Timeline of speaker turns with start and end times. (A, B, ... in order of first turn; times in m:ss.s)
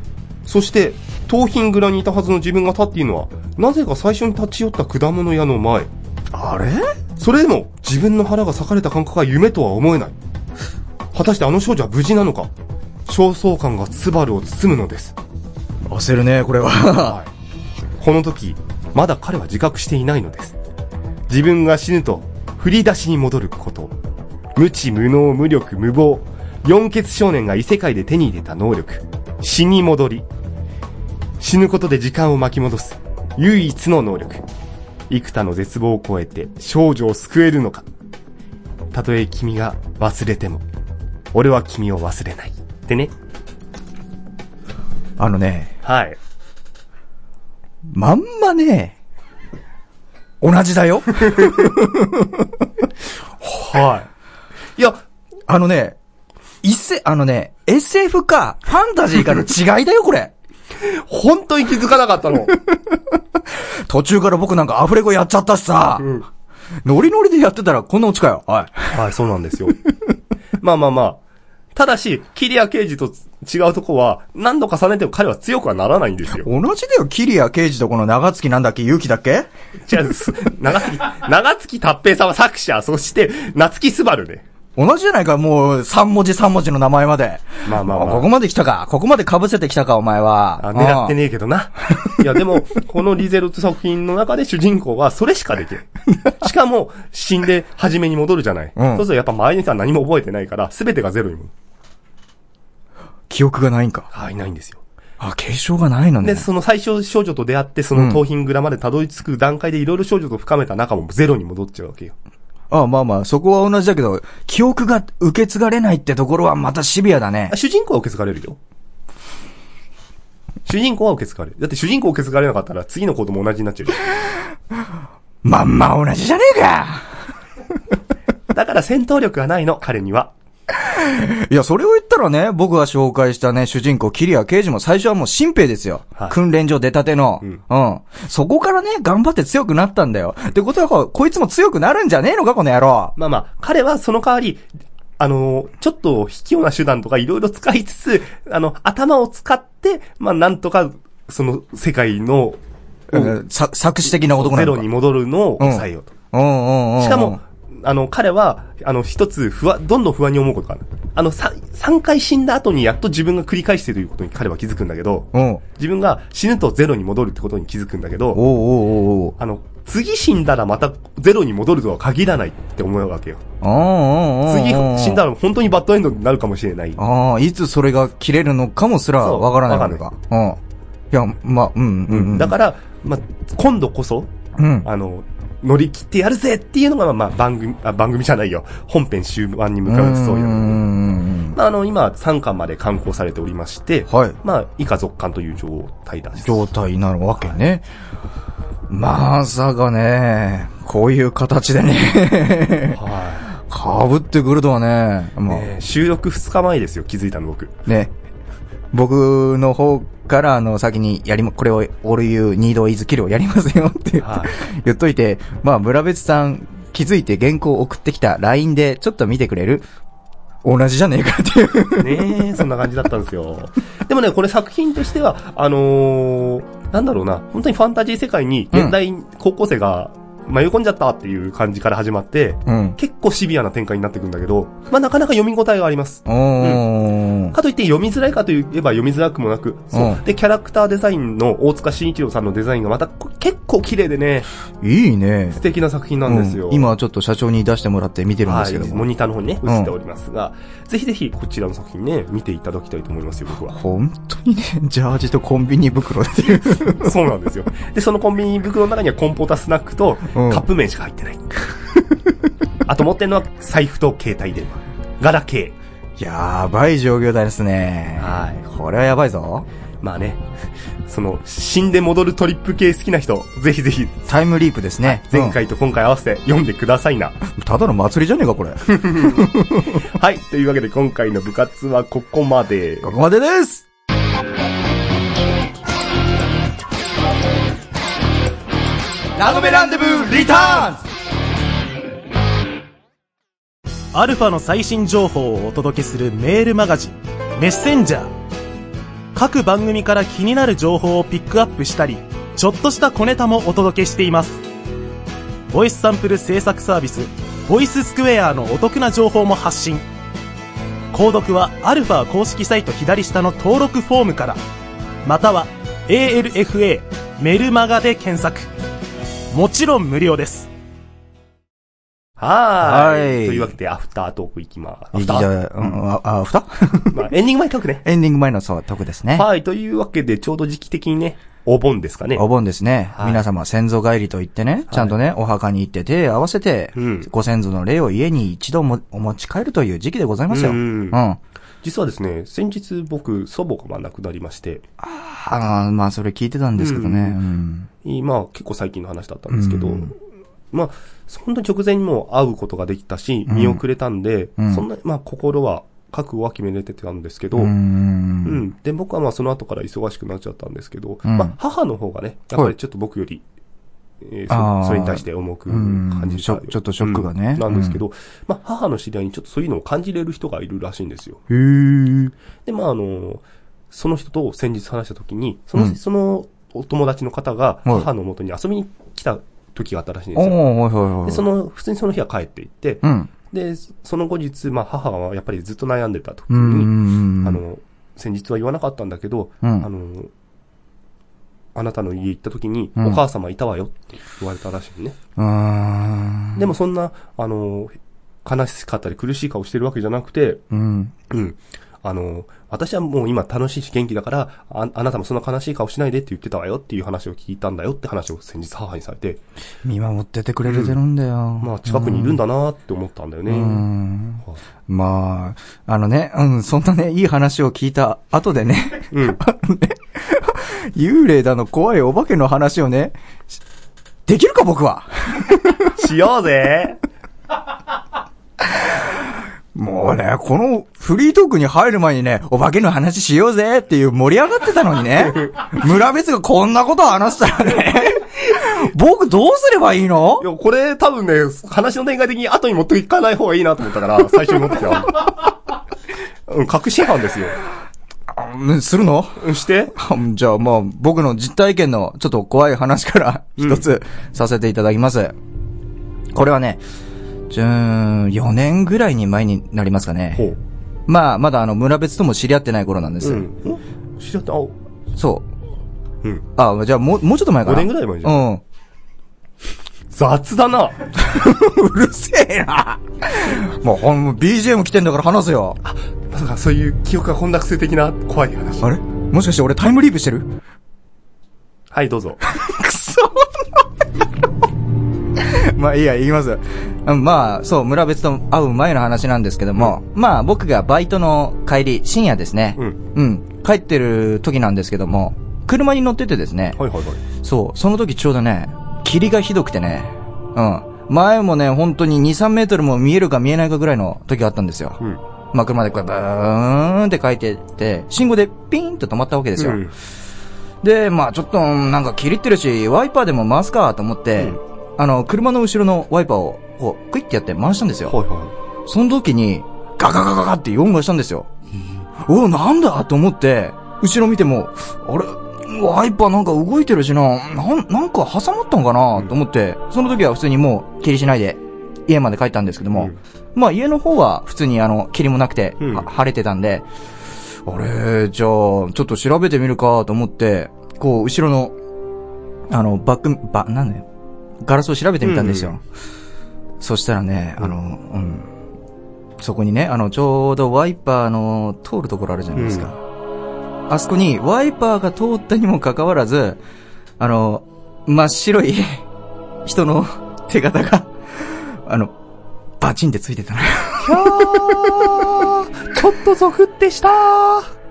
0:00.4-0:05.9 A
0:06.3-0:06.9 B
0:07.2-0:10.1 A
0:11.1-0:12.5 A
0:13.0-0:15.2 A
0:15.9-0:17.2 B
0:17.0-0:17.3 A
0:18.0-0:20.6 A
0:21.3-0:23.9 A
0:24.6-0:30.3 A
0:31.4-0:34.4 A
0:35.1-0:37.8 A
0:38.9-0:40.6 A
0:41.3-0:43.1 A
0:45.2-0:45.7 B
0:45.8-0:46.2 A
0:47.9-0:49.0 B
0:50.4-0:52.6 B
0:53.4-0:54.1 A
0:54.8-0:55.0 A
0:55.5-0:56.0 B
0:56.6-1:00.3 B
1:00.8-1:02.6 A
1:02.7-1:06.1 B
1:06.0-1:06.2 A
1:06.8-1:08.9 B
1:08.9-1:09.8 A
1:10.6-1:11.2 A
1:11.7-1:16.5 A
1:16.3-1:19.5 B
1:19.9-1:24.4 A
1:24.8-1:31.2 B
1:27.6-1:28.3 A
1:30.6-1:41.5 A
1:38.8-1:39.0 B
1:43.3-1:44.1 B
1:44.1-1:44.8 A
1:45.2-1:46.5 B
1:46.2-1:52.1 A
1:47.9-1:48.2 B
1:52.7-1:57.5 B
1:57.5-1:58.6 A
2:00.6-2:04.0 A
2:05.4-2:07.2 B
2:08.5-2:10.3 A
2:10.8-2:23.1 B
2:23.2-2:24.6 A
2:25.2-2:32.6 A
2:33.1-2:34.9 B
2:34.0-2:36.1 A
2:35.6-2:37.4 B
2:37.0-2:48.4 A
2:45.3-2:45.6 B
2:48.3-2:49.3 B
2:49.4-2:53.4 A
2:53.6-2:55.2 B
2:54.4-2:57.0 A
2:57.0-3:00.6 B
2:59.2-3:00.0 A
3:01.1-3:02.5 B
3:02.1-3:04.3 A
3:04.6-3:04.9 B
3:04.8-3:10.8 A
3:09.8-3:11.6 B
3:11.5-3:16.6 A
3:14.1-3:14.4 B
3:16.4-3:17.8 B
3:18.9-3:25.7 B
3:23.0-3:23.5 A
3:25.5-3:27.8 A
3:27.8-3:28.1 B
3:28.9-3:39.8 B
3:34.2-3:34.5 A
3:40.6-3:42.5 B
3:42.0-3:56.8 A
3:52.6-3:53.0 B
3:56.2-3:57.5 B
3:57.5-4:04.5 A
3:59.9-4:00.2 B
4:04.8-4:05.6 B
4:05.5-4:06.9 A
4:06.2-4:09.1 B
4:08.4-4:13.7 A
4:09.6-4:09.9 B
4:13.7-4:17.1 B
4:16.9-4:21.4 A
4:20.3-4:20.6 B
4:22.8-4:25.7 A
4:26.2-4:29.7 B
4:28.2-4:28.6 A
4:30.0-4:30.4 A
4:31.0-4:34.3 A
4:34.3-4:35.6 B
4:35.0-4:37.4 A
4:37.4-4:40.0 B
4:38.9-4:39.5 A
4:40.0-4:43.1 A
4:43.0-4:43.8 B
4:49.4-4:51.0 B
4:54.1-4:58.3 C
4:59.3-5:04.6 C
5:05.7-5:10.0 C
5:11.1-5:14.6 C
5:15.2-5:18.7 C
5:19.5-5:20.7 C
5:22.4-5:25.9 A
5:22.8-5:23.7 B
5:25.1-5:27.3 B
5:27.1-5:28.0 A
5:28.0-5:29.5 B
5:29.3-5:32.4 A
5:32.3-5:41.4 B
5:33.1-5:33.4 A
5:34.9-5:35.2 A
5:37.0-5:37.3 A
5:40.5-5:41.2 A
5:41.8-5:44.8 A
5:45.0-5:47.9 B
5:46.8-5:47.4 A
5:48.0-5:50.2 A
5:49.5-5:50.1 B
5:50.7-5:57.7 A
5:53.5-5:53.8 B
5:54.6-5:54.8 B
5:57.5-5:58.6 B
5:58.4-6:03.4 A
6:01.2-6:01.5 B
6:04.2-6:11.4 A
6:04.5-6:08.0 B
6:11.5-6:12.3 B
6:12.6-6:20.6 A
6:20.4-6:21.4 B
6:21.2-6:30.3 A
6:23.0-6:23.3 B
6:26.5-6:27.6 B
6:29.6-6:29.9 B
6:31.7-6:35.2 A
6:35.4-6:36.6 B
6:36.6-6:40.6 A
6:40.7-6:41.1 B
6:41.3-6:49.4 A
6:49.8-6:52.4 B
6:50.6-6:51.0 A
6:51.6-6:53.8 A
6:53.5-7:03.5 B
6:59.1-6:59.4 A
7:04.3-7:05.9 B
7:06.0-7:07.0 A
7:08.7-7:09.2 B
7:09.7-7:20.4 B
7:20.4-7:25.3 A
7:26.5-7:27.6 A
7:28.3-7:35.4 B
7:29.4-7:29.9 A
7:33.6-7:33.8 A
7:36.3-7:36.8 B
7:37.5-7:40.4 B
7:41.1-7:43.5 B
7:43.2-7:44.7 A
7:45.2-7:45.5 B
7:46.6-7:48.6 B
7:47.6-7:48.4 A
7:50.1-7:51.0 A
7:51.2-7:55.8 B
7:55.8-7:58.9 A
7:58.8-8:00.5 B
8:01.9-8:02.4 A
8:02.5-8:03.8 B
8:05.3-8:16.8 B
8:16.8-8:17.2 A
8:17.4-8:25.0 B
8:25.5-8:29.8 B
8:29.6-8:29.9 A
8:30.8-8:38.2 B
8:38.1-8:38.5 A
8:38.8-8:41.5 B
8:42.2-8:56.9 B
8:55.8-8:56.1 A
8:57.6-9:01.7 B
9:02.7-9:04.1 B
9:04.6-9:05.8 B
9:05.2-9:05.8 A
9:06.8-9:08.5 B
9:09.4-9:13.0 B
9:12.6-9:12.9 A
9:13.9-9:16.6 B
9:17.2-9:19.0 B
9:19.6-9:22.1 B
9:22.8-9:24.8 B
9:24.0-9:27.7 A